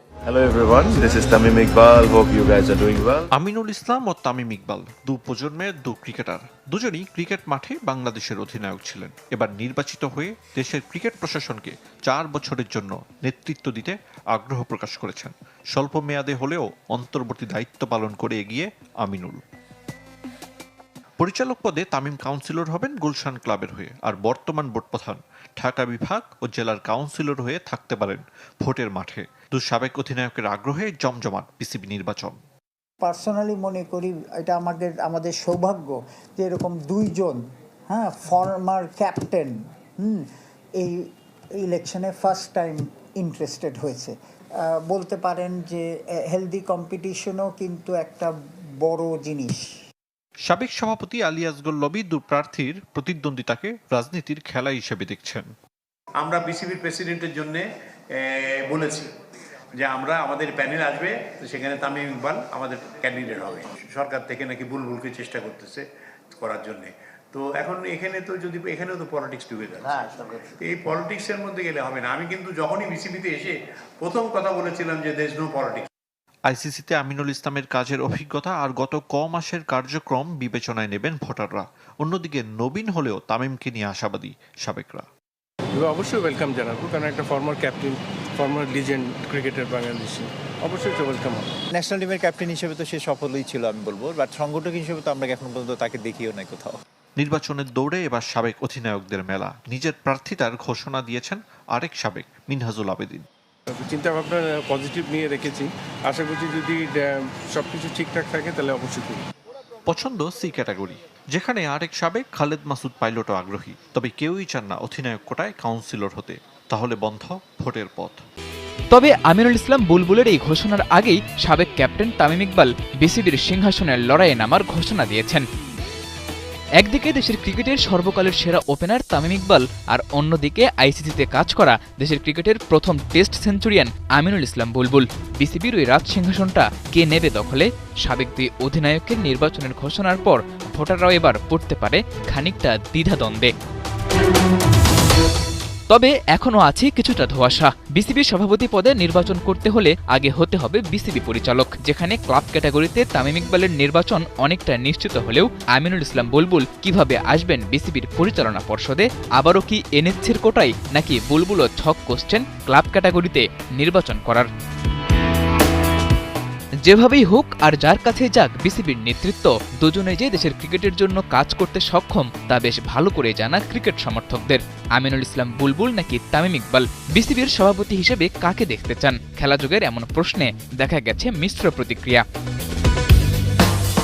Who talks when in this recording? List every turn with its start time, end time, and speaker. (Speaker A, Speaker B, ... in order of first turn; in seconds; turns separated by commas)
Speaker A: 0.3-3.2, Speaker B: 3.3-19.4, Speaker B: 21.2-32.4, Speaker C: 33.0-40.2, Speaker C: 40.8-41.1, Speaker C: 41.6-49.6, Speaker B: 50.5-55.5, Speaker D: 56.2-57.6, Speaker D: 58.2-59.1, Speaker D: 59.8-75.9, Speaker B: 76.5-85.0, Speaker E: 85.7-91.5, Speaker F: 91.7-96.8, Speaker B: 97.2-103.2, Speaker E: 103.7-109.2, Speaker B: 109.9-118.2, Speaker G: 118.9-125.4, Speaker G: 126.8-143.5, Speaker G: 145.9-164.5, Speaker G: 166.8-182.2